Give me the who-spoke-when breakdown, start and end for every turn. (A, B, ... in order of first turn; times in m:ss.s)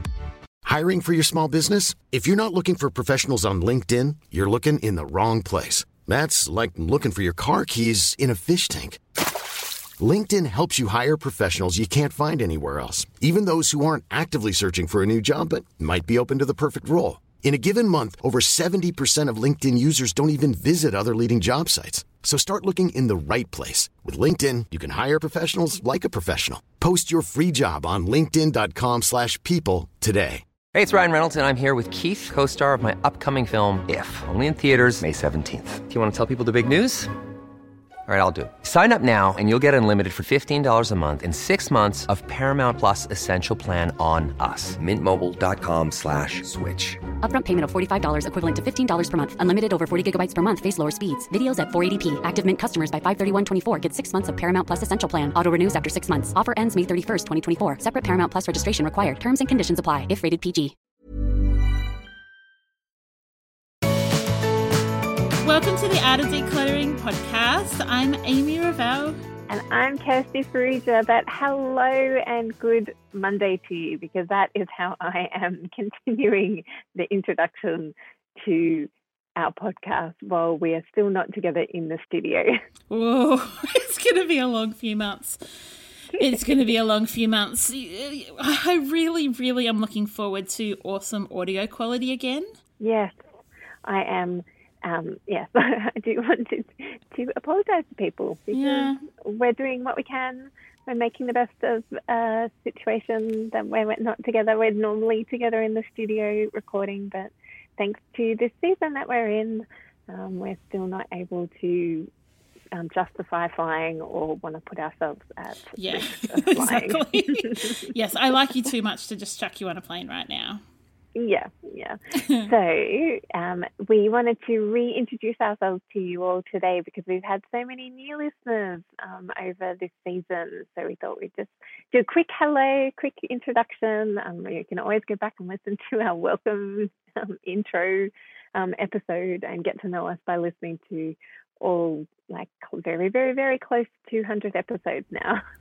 0:00.6-0:09.0 A
0:10.0-0:30.4 A
0:30.7-0:37.1 B
0:38.1-0:47.0 B
0:47.2-1:00.7 C
1:05.4-1:09.2 D
1:09.5-1:22.6 E
1:22.9-1:25.6 D
1:26.1-1:32.5 D
1:32.8-1:33.1 E
1:33.8-1:52.1 E
1:38.5-1:39.0 D
1:52.7-1:57.9 E
1:55.8-2:00.6 D
2:01.1-2:25.4 E